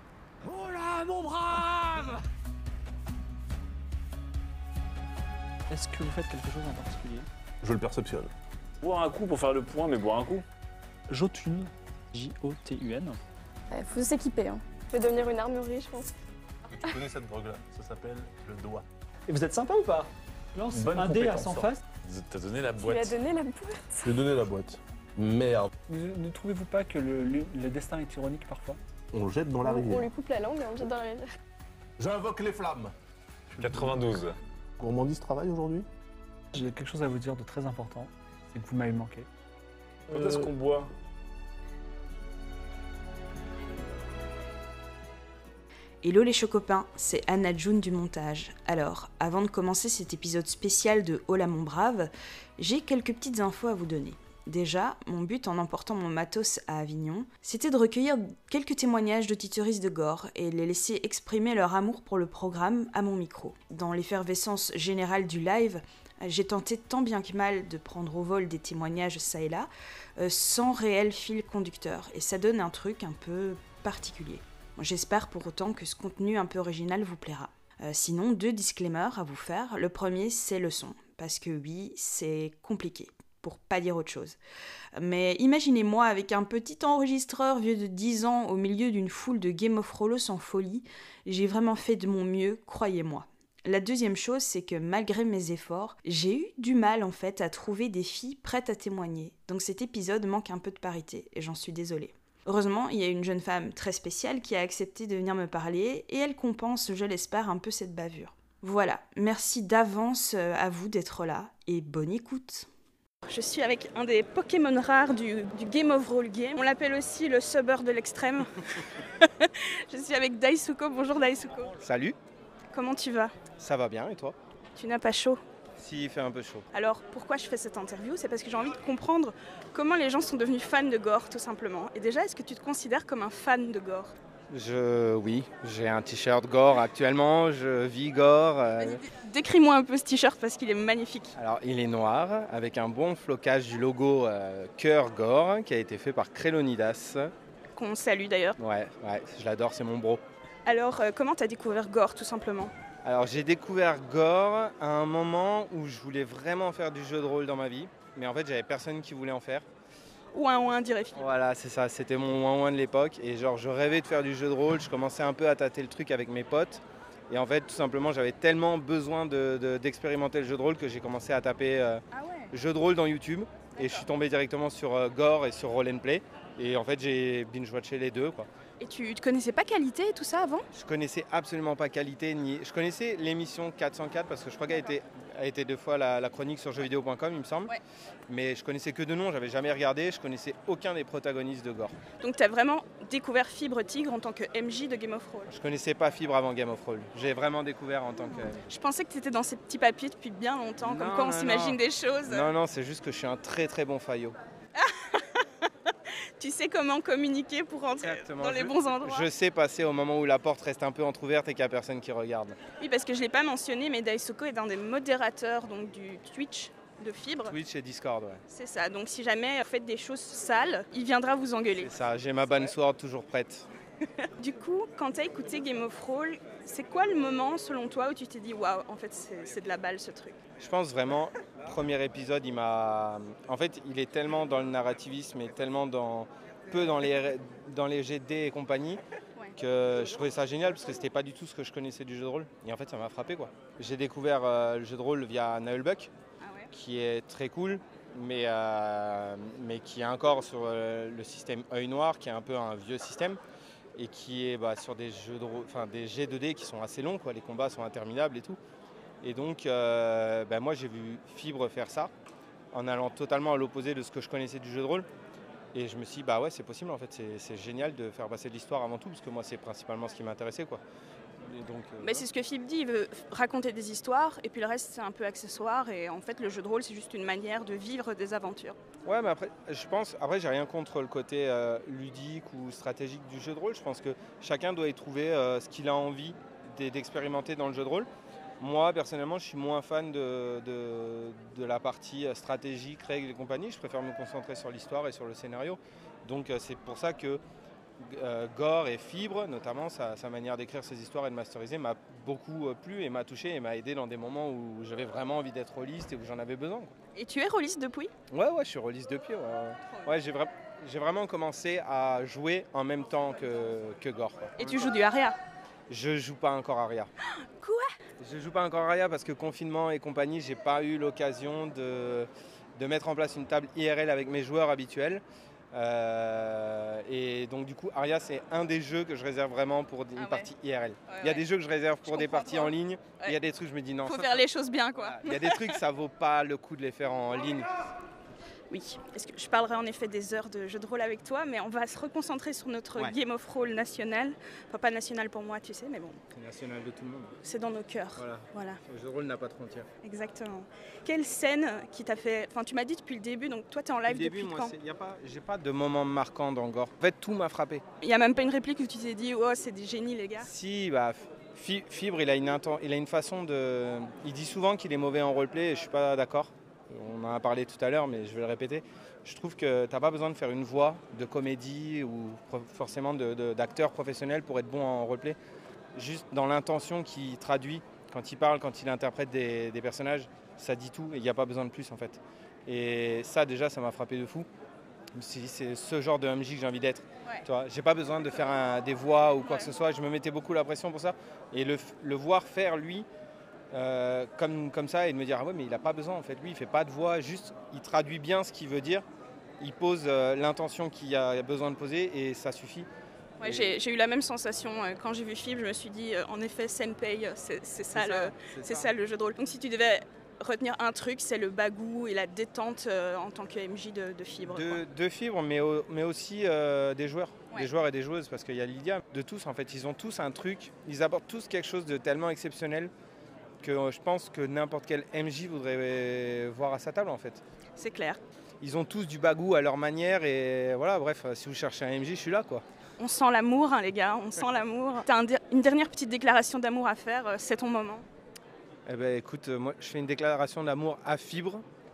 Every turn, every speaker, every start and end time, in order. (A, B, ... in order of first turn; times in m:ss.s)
0:00.6-0:01.4 A
0:05.7-0:07.3 A
0:07.6-0:08.3 B
0:08.8-0:10.4 C
0:11.1-0:13.2 A
0:13.7-0:16.1 D
0:16.7-0:18.8 B
0:19.3-0:21.8 A
0:20.7-0:22.2 B
0:20.8-0:21.3 C
0:22.1-0:23.1 C
0:22.7-0:24.1 D
0:24.0-0:25.7 B
0:25.9-0:28.8 A
0:29.1-0:30.1 B
0:29.6-0:31.3 D
0:32.0-0:32.9 B
0:33.6-0:33.9 B
0:33.6-0:34.3 C
0:34.8-0:35.9 B
0:36.5-0:39.2 A
0:40.1-0:40.9 C
0:40.1-0:40.4 B
0:46.0-1:24.4 E
1:25.0-1:52.7 E
1:53.2-2:01.7 F
2:01.8-2:02.2 G
2:02.7-2:03.3 F
2:03.5-2:04.4 G
2:04.8-2:05.4 F
2:05.8-2:06.7 G
2:06.7-2:14.1 F
2:14.5-2:19.0 G
2:18.8-2:21.3 F
2:21.4-2:27.3 G
2:27.8-2:28.6 F
2:28.6-2:30.2 G
2:30.6-2:32.7 F
2:33.0-2:39.6 G
2:40.3-2:41.3 F
2:41.2-2:58.5 G
2:52.1-2:52.5 F
2:53.8-2:54.0 F
2:58.8-3:00.6 F
3:00.7-3:07.7 G
3:08.3-3:12.0 G
3:12.2-3:15.5 F
3:15.5-3:18.6 G
3:18.6-3:22.5 F
3:20.8-3:24.4 G
3:24.7-3:29.3 F
3:28.0-3:32.6 G
3:32.8-3:37.6 F
3:37.4-3:38.4 G
3:38.5-3:41.9 F
3:41.8-3:43.7 G
3:44.4-3:50.4 F
3:50.6-3:59.0 G
3:59.6-4:06.1 G
4:06.4-4:06.7 F
4:06.7-4:13.4 G
4:14.0-4:18.6 G
4:19.2-4:22.1 G
4:22.7-4:25.1 G
4:25.7-4:30.8 G
4:31.4-4:32.2 G
4:32.0-4:38.8 F
4:39.0-4:48.1 G
4:48.6-4:57.4 G
4:58.0-5:06.9 G
5:07.1-5:08.1 F
5:08.3-5:14.8 G
5:14.6-5:15.4 F
5:15.9-5:17.1 G
5:17.4-5:17.9 F
5:18.2-5:37.7 G
5:30.2-5:30.5 F
5:31.1-5:31.4 F
5:32.1-5:33.4 F
5:34.0-5:35.8 F
5:38.7-5:46.2 F
5:46.3-5:47.4 G
5:47.4-5:48.8 F
5:48.2-5:49.9 G
5:50.0-5:54.7 F
5:54.0-5:57.8 G
5:58.0-6:00.5 F
6:00.4-6:15.4 G
6:15.9-6:24.5 G
6:25.1-6:33.1 G
6:29.4-6:29.7 F
6:33.7-6:39.0 G
6:39.6-6:42.9 G
6:43.4-6:54.8 F
6:43.4-6:43.8 G
6:47.9-6:48.9 G
6:54.4-7:02.9 G
7:03.6-7:07.4 G
7:07.8-7:08.2 F
7:08.6-7:12.6 G
7:13.0-7:18.0 F
7:18.9-7:21.6 G